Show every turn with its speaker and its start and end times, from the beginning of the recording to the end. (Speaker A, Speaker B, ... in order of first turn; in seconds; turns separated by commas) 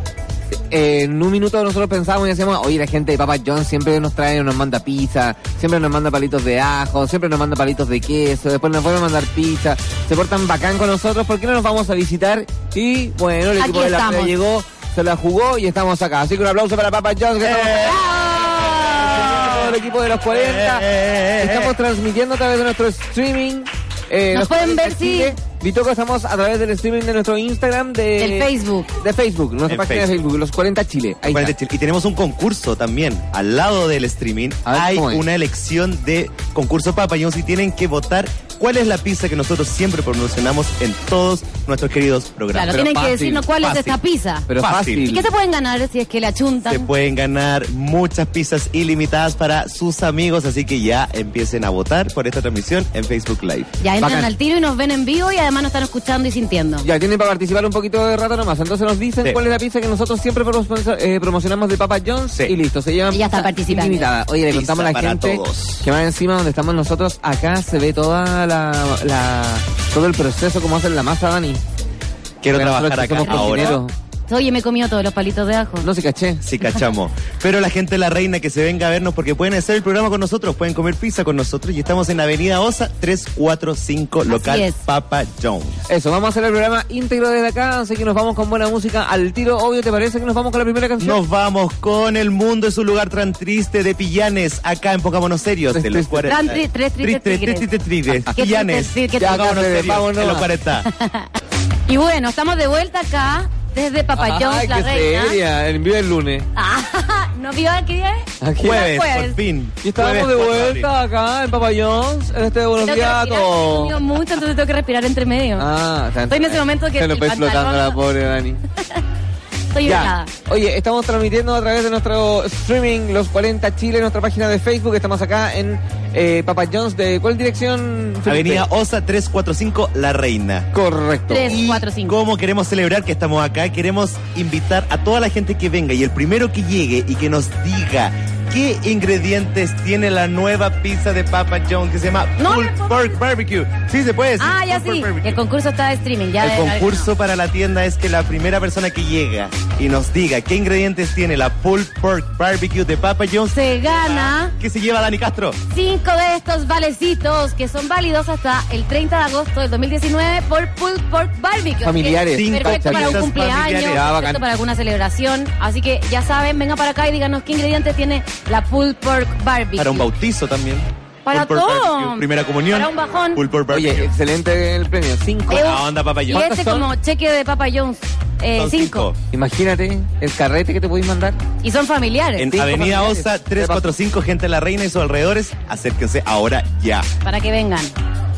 Speaker A: 0.5-20.9, Speaker B: 13.6-14.3, Speaker C: 17.4-19.8, Speaker C: 20.3-21.7, Speaker A: 21.4-31.6, Speaker B: 24.3-25.4, Speaker B: 28.2-28.9, Speaker C: 29.7-30.1, Speaker C: 31.3-42.8, Speaker A: 34.7-35.2, Speaker B: 42.5-44.5, Speaker A: 42.7-43.5, Speaker C: 43.6-44.0, Speaker A: 44.5-45.2, Speaker C: 44.6-45.1, Speaker B: 45.1-46.9, Speaker C: 46.7-53.7, Speaker B: 53.8-56.9, Speaker A: 54.0-54.3, Speaker A: 56.8-71.6, Speaker B: 63.1-64.1, Speaker C: 64.5-65.9, Speaker C: 72.4-73.8, Speaker A: 72.5-73.9, Speaker B: 73.2-75.9, Speaker A: 75.8-76.4, Speaker C: 76.4-85.8, Speaker B: 84.3-84.8, Speaker A: 85.9-91.2, Speaker C: 91.0-100.9, Speaker A: 95.7-96.3, Speaker B: 96.3-97.7, Speaker A: 98.1-98.4, Speaker B: 98.3-99.5, Speaker A: 99.2-100.5, Speaker B: 100.8-101.3, Speaker B: 101.9-105.4, Speaker A: 104.2-106.5, Speaker B: 106.5-109.4, Speaker A: 108.4-109.0, Speaker C: 108.6-110.9, Speaker A: 109.8-113.9, Speaker B: 112.8-115.7, Speaker A: 115.6-118.6, Speaker B: 116.3-118.0, Speaker B: 119.7-120.3, Speaker A: 119.8-128.7, Speaker C: 128.3-130.7, Speaker A: 130.7-131.6, Speaker B: 131.3-132.2, Speaker C: 131.5-145.4, Speaker B: 142.4-143.2, Speaker B: 144.4-147.1, Speaker C: 146.4-155.6, Speaker B: 153.5-154.5, Speaker B: 155.7-170.1, Speaker A: 161.8-164.4, Speaker C: 162.3-164.1, Speaker C: 169.8-174.1, Speaker B: 171.3-173.4, Speaker A: 173.7-176.9, Speaker C: 175.5-176.4, Speaker B: 175.5-179.1, Speaker C: 178.6-179.2, Speaker A: 179.3-181.4, Speaker B: 181.6-182.5, Speaker C: 182.4-187.1, Speaker A: 182.5-183.9, Speaker B: 187.2-187.9